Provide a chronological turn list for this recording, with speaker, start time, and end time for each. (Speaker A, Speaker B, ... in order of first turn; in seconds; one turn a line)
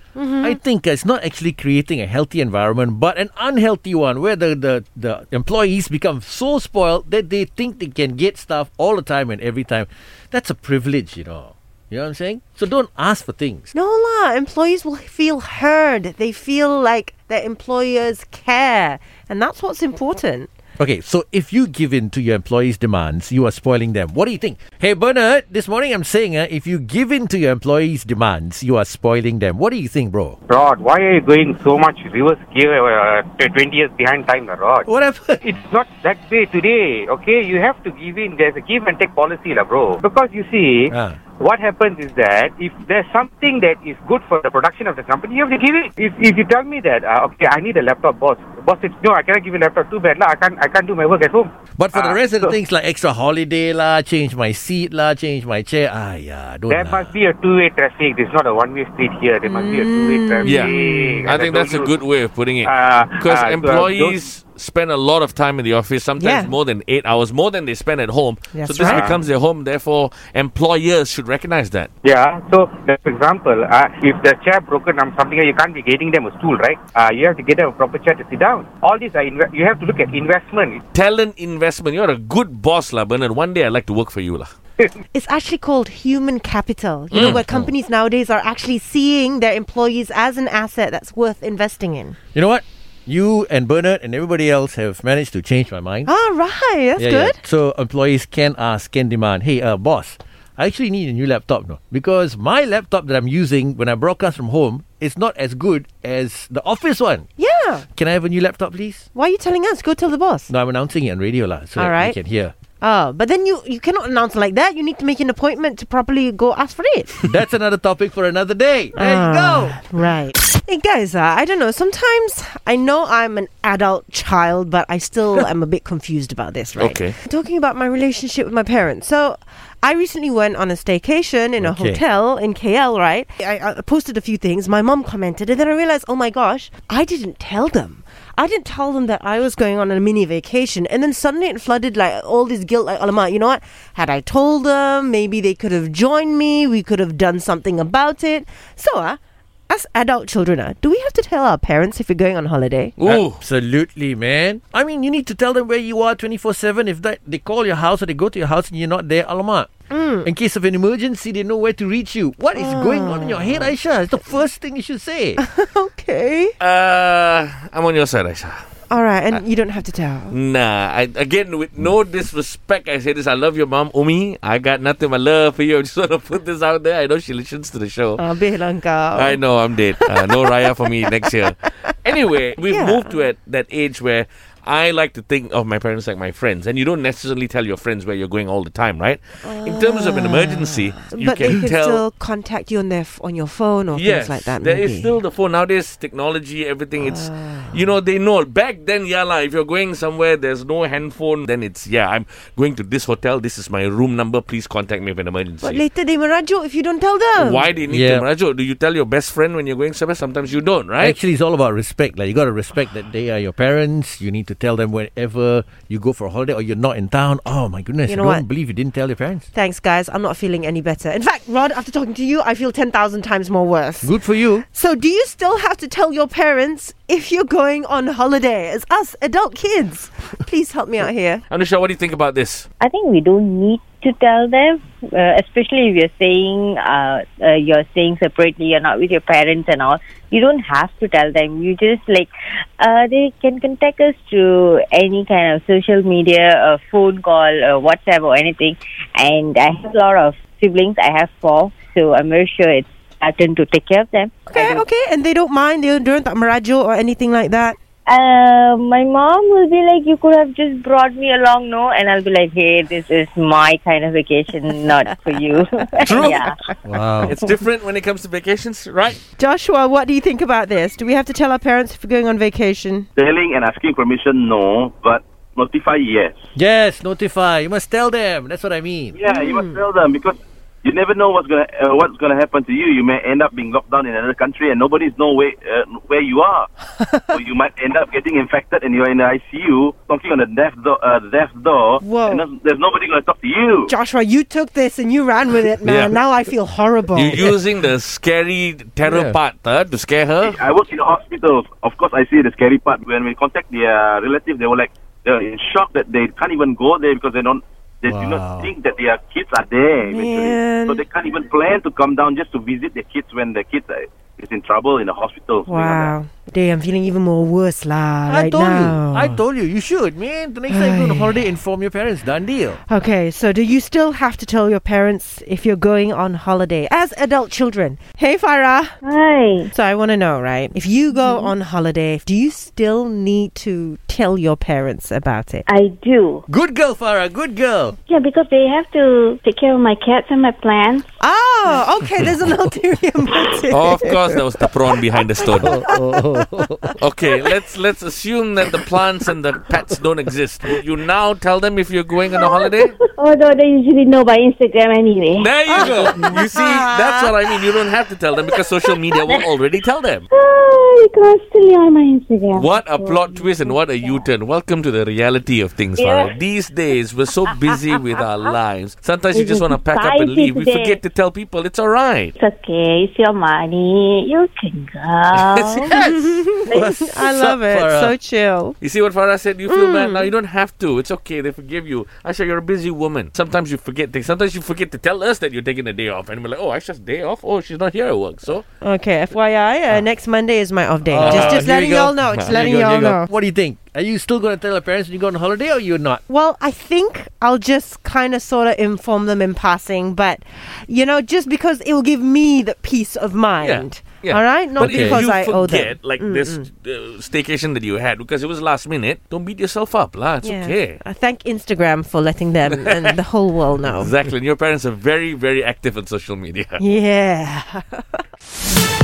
Speaker A: 0.1-0.6
Speaker B: 0.4-13.7
Speaker A: 13.7-20.5
Speaker B: 20.8-30.4
Speaker C: 30.5-34.9
Speaker B: 34.9-35.4
Speaker C: 35.4-52.5
Speaker B: 40.9-41.2
Speaker B: 51.8-57.1
Speaker C: 56.7-61.9
Speaker A: 59.4-61.2
Speaker D: 60.4-71.9
Speaker C: 62.6-64.2
Speaker A: 66.2-66.5
Speaker A: 68.5-69.2
Speaker C: 72.0-80.8
Speaker D: 80.9-84.5
Speaker A: 85.1-92.2
Speaker D: 87.1-87.4
Speaker B: 87.1-87.7
Speaker B: 92.3-96.1
Speaker A: 96.0-97.4
Speaker B: 97.0-107.3
Speaker A: 107.4-107.8
Speaker B: 107.9-109.1
Speaker A: 109.1-110.5
Speaker B: 110.5-112.5
Speaker A: 111.8-112.2
Speaker A: 112.8-117.3
Speaker B: 117.3-119.8
Speaker A: 119.0-149.2
Speaker D: 126.8-127.1
Speaker B: 131.6-132.0
Speaker A: 149.7-152.9
Speaker D: 153.0-153.4
Speaker B: 153.0-159.7
Speaker A: 159.9-160.3
Speaker B: 160.2-165.4
Speaker A: 162.5-163.7
Speaker A: 165.4-166.5
Speaker D: 166.6-168.6
Speaker A: 168.9-170.3
Speaker D: 170.3-178.2
Speaker A: 178.2-179.4
Speaker D: 179.1-192.0
Speaker A: 180.0-181.9
Speaker A: 182.6-183.1
Speaker A: 189.4-195.2
Speaker D: 193.9-205.8
Speaker A: 197.0-197.8
Speaker A: 205.6-207.7
Speaker D: 207.4-211.2
Speaker B: 207.9-208.2
Speaker B: 211.0-219.5
Speaker A: 218.1-218.4
Speaker A: 219.5-224.1
Speaker B: 224.0-224.7
Speaker A: 224.7-231.4
Speaker D: 231.5-232.7
Speaker E: 232.8-254.8
Speaker A: 254.5-257.8
Speaker E: 258.1-266.6
Speaker D: 266.0-266.4
Speaker B: 266.8-267.4
Speaker D: 267.2-269.2
Speaker A: 269.4-273.1
Speaker F: 273.2-276.3
Speaker B: 276.6-279.1
Speaker F: 279.1-286.7
Speaker A: 279.2-279.9
Speaker A: 287.0-287.4
Speaker F: 287.3-293.9
Speaker A: 292.0-292.4
Speaker A: 293.9-297.5
Speaker D: 295.8-296.2
Speaker D: 297.1-300.6
Speaker B: 299.0-299.4
Speaker F: 300.4-316.1
Speaker B: 308.1-308.7
Speaker A: 310.0-311.0
Speaker A: 315.6-319.4
Speaker B: 318.3-322.8
Speaker A: 320.7-321.4
Speaker A: 322.9-328.9
Speaker E: 329.0-329.7
Speaker A: 329.7-335.6
Speaker E: 335.7-336.4
Speaker B: 336.5-338.0
Speaker G: 338.1-341.0
Speaker A: 341.2-344.4
Speaker D: 343.7-345.7
Speaker B: 345.5-347.0
Speaker A: 345.6-345.9
Speaker D: 347.0-352.9
Speaker E: 353.2-356.4
Speaker D: 355.4-360.2
Speaker G: 355.9-356.4
Speaker E: 360.6-364.2
Speaker G: 362.2-362.6
Speaker D: 362.5-372.3
Speaker E: 366.0-366.3
Speaker E: 369.4-371.0
Speaker G: 372.4-374.5
Speaker E: 372.7-375.8
Speaker D: 375.3-375.9
Speaker G: 375.3-375.6
Speaker B: 375.9-378.1
Speaker A: 376.0-378.8
Speaker D: 378.8-388.6
Speaker A: 379.7-380.3
Speaker A: 388.8-393.3
Speaker B: 391.1-391.9
Speaker D: 391.2-393.1
Speaker B: 392.5-396.2
Speaker A: 396.3-406.7
Speaker D: 403.6-411.0
Speaker B: 404.8-405.2
Speaker A: 410.4-414.1
Speaker D: 412.7-413.1
Speaker D: 413.9-416.8
Speaker A: 416.8-418.2